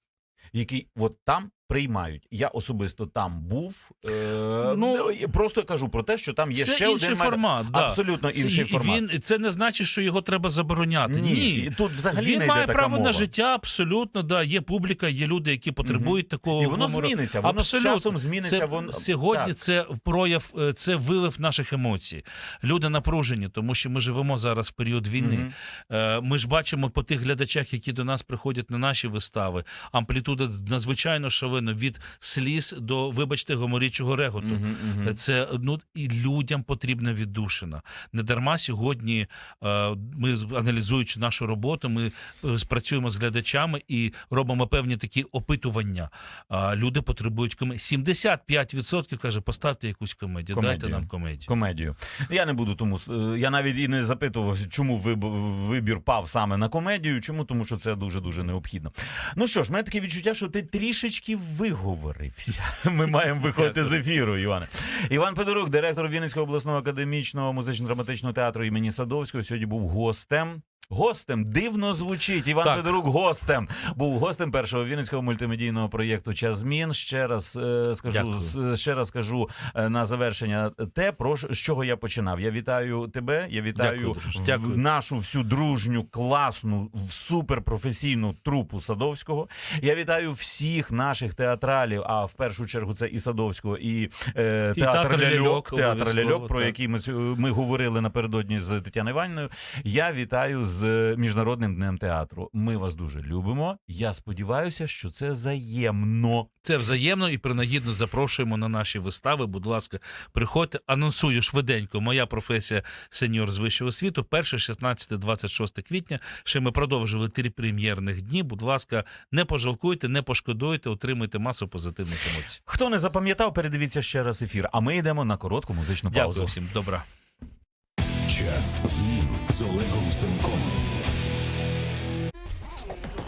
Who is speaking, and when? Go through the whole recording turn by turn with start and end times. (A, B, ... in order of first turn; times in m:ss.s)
0:00.5-0:09.0 A
0:04.6-0:05.1 B
0:06.5-0:51.5 B
0:11.0-0:13.3 A
0:15.8-0:19.5 A
0:25.2-0:25.5 A
0:34.4-0:35.2 A
0:50.5-1:46.5 A
1:12.6-1:12.9 B
1:18.1-1:18.5 B
1:23.7-1:24.8 B
1:34.7-1:36.8 B
1:46.6-2:02.6 B
2:02.6-2:06.5 A
2:06.1-2:07.0 B
2:08.3-2:10.8 C